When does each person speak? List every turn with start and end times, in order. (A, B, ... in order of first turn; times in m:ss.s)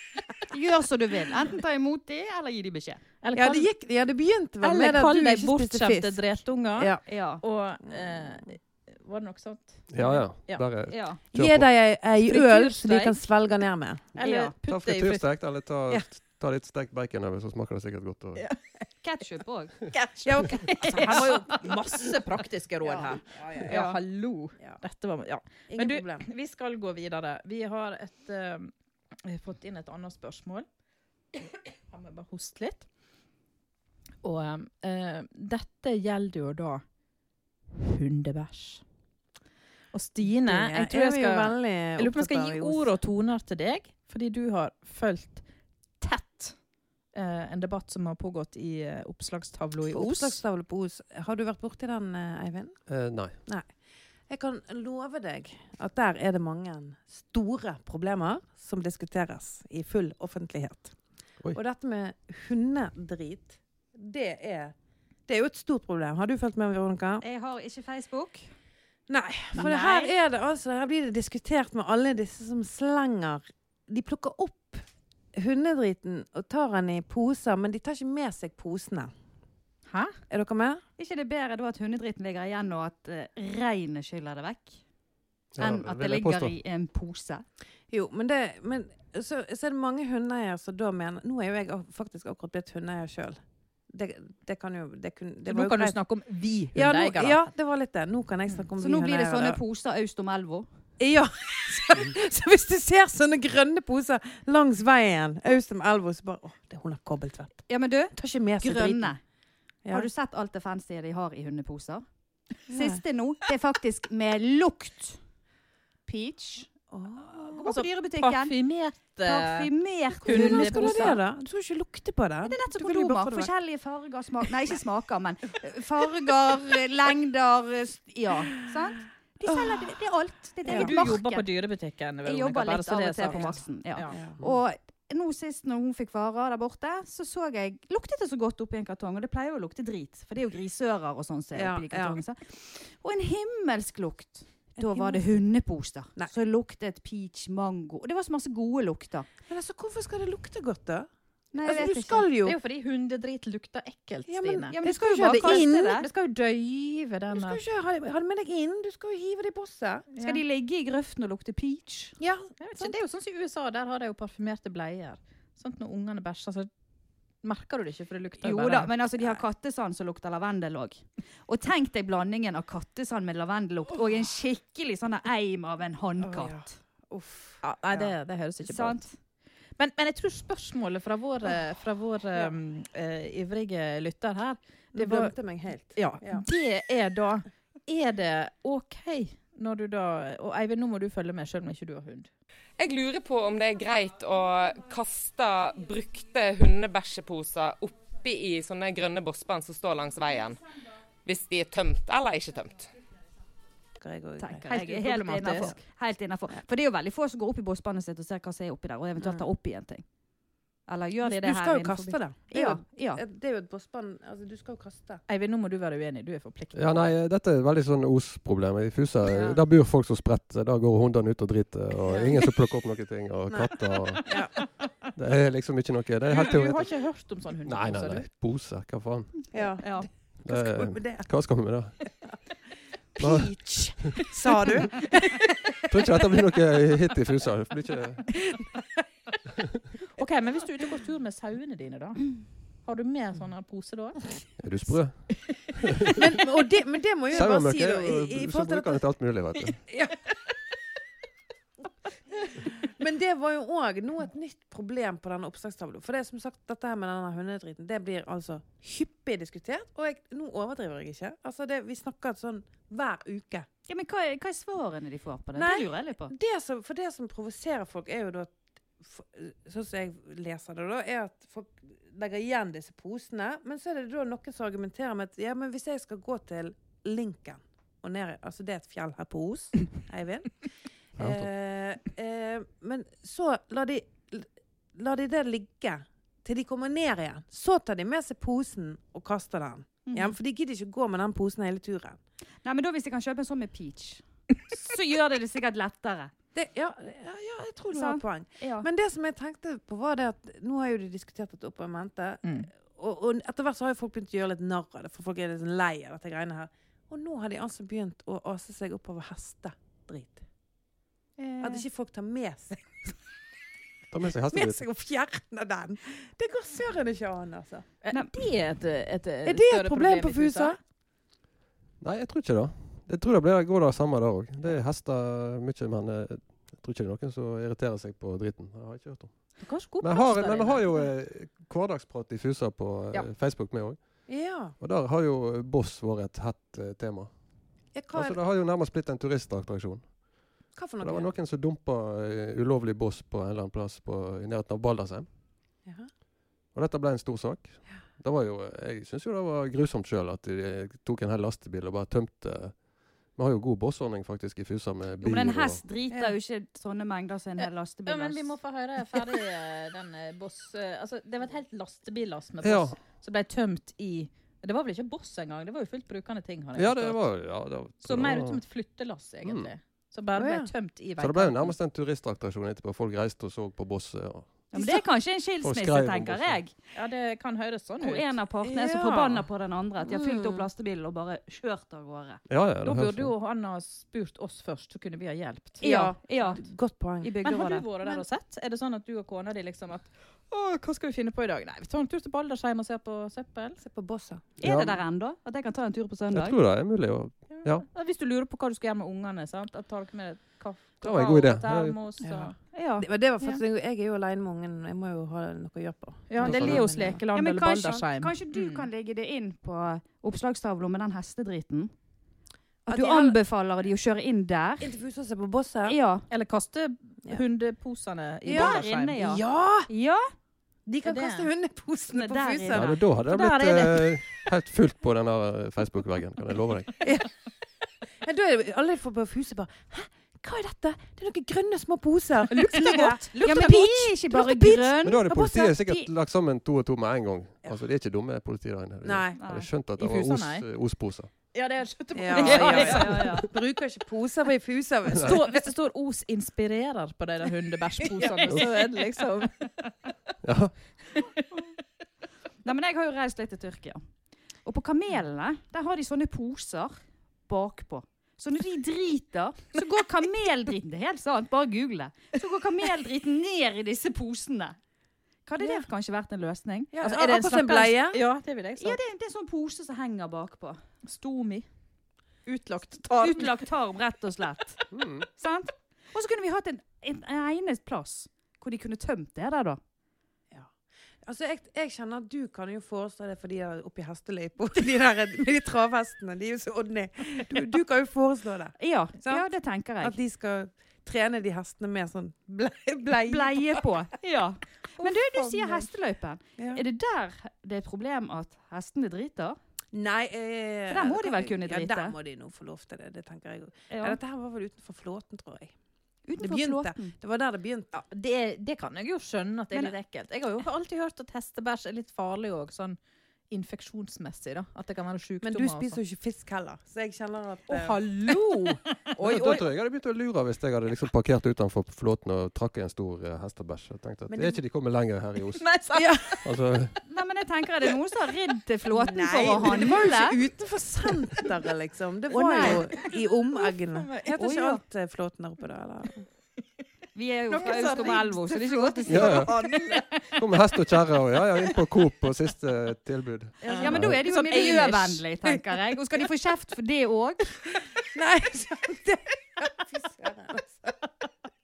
0:00.5-0:03.0 A
0:03.2-0:03.7 B
0:03.3-0:07.0 C
0:04.6-0:10.7 B
0:07.1-0:07.4 A
0:09.9-0:11.7 D
0:10.9-0:11.2 A
0:11.3-0:14.1 C
0:12.2-0:13.2 B
0:14.1-0:15.2 B
0:14.2-0:14.5 A
0:14.6-0:18.4 D
0:19.0-0:21.4 A
0:19.9-0:28.7 B
0:20.2-0:21.7 C
0:22.8-0:23.8 C
0:23.7-0:24.0 A
0:25.7-0:26.3 C
0:29.2-0:30.6 B
0:31.4-0:32.9 B
0:34.2-0:36.8 B
0:37.7-0:38.8 B
0:39.9-0:45.4 B
0:40.4-0:42.9 C
0:46.0-0:46.6 B
0:47.1-0:50.4 B
0:49.9-0:52.8 C
0:52.9-0:53.4 D
0:53.4-0:53.7 C
0:54.3-1:00.9 C
1:01.5-1:04.7 C
1:05.3-1:07.2 C
1:07.2-1:08.5 A
1:09.1-1:19.1 C
1:09.6-1:10.0 B
1:09.6-1:10.1 A
1:19.9-1:20.2 B
1:20.3-1:20.8 C
1:21.0-1:24.8 A
1:25.5-1:26.5 D
1:25.6-1:27.4 A
1:27.9-1:33.4 C
1:33.9-1:36.0 C
1:35.4-1:37.4 B
1:36.7-1:39.6 C
1:38.8-1:40.6 A
1:41.0-1:49.1 C
1:47.7-1:49.2 A
1:49.9-1:52.0 A
1:52.7-1:55.2 A
1:52.7-1:53.0 C
1:56.1-1:56.7 A
1:56.9-1:57.7 C
1:57.3-1:58.5 A
1:57.6-1:59.7 B
1:59.2-2:01.2 A
2:00.2-2:03.5 C
2:00.2-2:01.2 B
2:02.4-2:11.5 A
2:09.5-2:09.9 C
2:10.6-2:10.9 C
2:10.6-2:14.2 B
2:12.2-2:29.3 A
2:14.1-2:14.4 C
2:21.5-2:22.2 C
2:24.8-2:25.3 C
2:29.5-2:31.1 C
2:31.5-2:32.2 A
2:31.6-2:32.6 C
2:32.4-2:37.6 B
2:34.3-2:36.0 C
2:34.7-2:36.1 A
2:37.3-2:40.1 C
2:40.1-2:40.4 B
2:40.2-2:42.2 A
2:42.2-2:42.9 C
2:42.6-2:46.7 B
2:47.4-2:48.9 B
2:48.4-2:56.7 A
2:56.2-2:58.1 C
2:57.6-2:59.0 B
2:58.6-2:59.1 A
2:59.8-3:05.3 B
3:04.9-3:06.4 C
3:05.9-3:12.3 B
3:12.8-3:20.6 E
3:21.2-3:22.9 E
3:24.0-3:24.7 C
3:24.4-3:30.0 A
3:24.6-3:25.8 B
3:29.2-3:29.5 C
3:30.9-3:33.2 A
3:31.2-3:35.2 C
3:35.3-3:37.1 B
3:36.7-3:44.3 D
3:39.3-3:39.6 C
3:42.0-3:42.4 C
3:43.5-3:43.7 C
3:44.2-3:44.5 C
3:45.1-3:47.0 D
3:46.3-3:48.3 B
3:47.6-3:49.5 D
3:49.5-3:51.3 C
3:49.8-3:50.1 A
3:50.4-3:52.0 D
3:53.2-3:55.5 C
3:53.2-3:54.2 D
3:55.9-3:58.4 D
4:00.1-4:04.3 B
4:04.6-4:06.2 D
4:06.1-4:09.0 C
4:07.3-4:09.8 D
4:12.6-4:23.7 C
4:23.9-4:26.3 A
4:25.5-4:52.2 C
4:41.2-4:41.5 D
4:50.0-4:50.3 A
4:52.6-4:56.3 A
4:56.5-5:10.4 C
4:57.9-4:58.9 A
5:02.4-5:02.7 B
5:11.4-5:11.8 A
5:11.6-5:13.1 C
5:14.1-5:14.8 D
5:14.5-5:17.9 C
5:18.0-5:20.8 B
5:19.4-5:20.8 C
5:22.0-5:34.2 D
5:29.6-5:30.8 B
5:34.3-5:34.7 C
5:34.8-5:37.3 D
5:37.9-5:38.4 C
5:38.1-5:40.2 D
5:40.7-5:41.3 C
5:41.0-5:45.3 D
5:46.7-5:55.8 D
5:55.2-5:58.5 A
5:58.0-6:07.3 B
6:02.6-6:03.0 D
6:06.8-6:08.6 D
6:08.0-6:11.7 B
6:09.4-6:09.7 D
6:10.3-6:10.7 C
6:11.2-6:14.6 D
6:14.7-6:16.7 A
6:15.6-6:16.6 D
6:16.9-6:18.3 B
6:18.0-6:22.4 A
6:18.6-6:19.5 C
6:20.0-6:20.7 C
6:22.5-6:23.3 D
6:22.8-6:25.8 B
6:25.8-6:26.6 A
6:25.8-6:27.4 C
6:27.2-6:27.9 A
6:27.4-6:33.8 B
6:33.8-6:34.4 C
6:34.6-6:36.6 A
6:34.6-6:35.0 D
6:36.3-6:37.8 D
6:37.5-6:42.6 B
6:41.0-6:42.0 D
6:42.2-6:47.2 C
6:42.7-6:43.1 A
6:46.3-6:48.8 B
6:46.4-6:46.8 D
6:47.3-6:51.9 A
6:52.9-6:53.4 C
6:52.9-6:54.9 A
6:54.8-6:56.0 C
6:55.8-6:56.2 A
6:56.3-6:59.2 B
6:58.4-6:59.9 C
6:58.5-7:00.2 A
7:00.8-7:03.0 C
7:01.0-7:01.5 B
7:02.1-7:03.0 A
7:02.7-7:07.0 D
7:03.2-7:04.2 B
7:07.0-7:07.3 C
7:08.2-7:15.6 C
7:12.5-7:14.1 B
7:12.8-7:16.1 A
7:15.0-7:21.3 D
7:19.0-7:19.4 C
7:19.4-7:19.7 A
7:20.0-7:20.6 B
7:21.5-7:23.4 B
7:22.1-7:25.6 C
7:22.3-7:23.5 A
7:25.2-7:29.8 B
7:30.4-7:30.7 D
7:31.1-7:31.4 B
7:32.6-7:34.0 A
7:34.6-7:44.8 A
7:45.4-7:46.9 A
7:45.6-7:45.8 C
7:46.9-7:48.2 C
7:47.0-7:49.0 B
7:48.8-7:50.8 A
7:51.0-7:51.7 B
7:52.4-7:53.6 B
7:53.1-7:59.8 A
7:54.9-7:55.2 D
8:00.5-8:09.5 C
8:08.8-8:10.2 A
8:10.0-8:13.9 C
8:13.2-8:19.6 A
8:15.0-8:15.9 B
8:16.6-8:16.8 C
8:19.9-8:25.7 C
8:20.9-8:22.1 A
8:23.9-8:24.2 A
8:26.2-8:27.1 A
8:26.4-8:28.0 C
8:27.9-8:33.0 B
8:33.5-8:36.0 B
8:35.4-8:38.0 C
8:37.7-8:39.6 B
8:39.2-8:45.7 D
8:44.3-8:44.6 C
8:45.6-8:46.4 B
8:45.9-8:46.4 C
8:46.4-8:47.0 D
8:47.1-8:50.4 A
8:48.9-8:56.2 C
8:52.3-8:54.4 B
8:52.4-8:52.8 A
8:54.4-8:54.8 A
8:57.1-8:59.5 A
8:57.5-9:00.4 B
8:57.5-9:00.0 C
8:59.1-8:59.5 D
9:00.4-9:04.2 D
9:03.6-9:05.2 B
9:03.8-9:07.7 A
9:08.1-9:11.0 C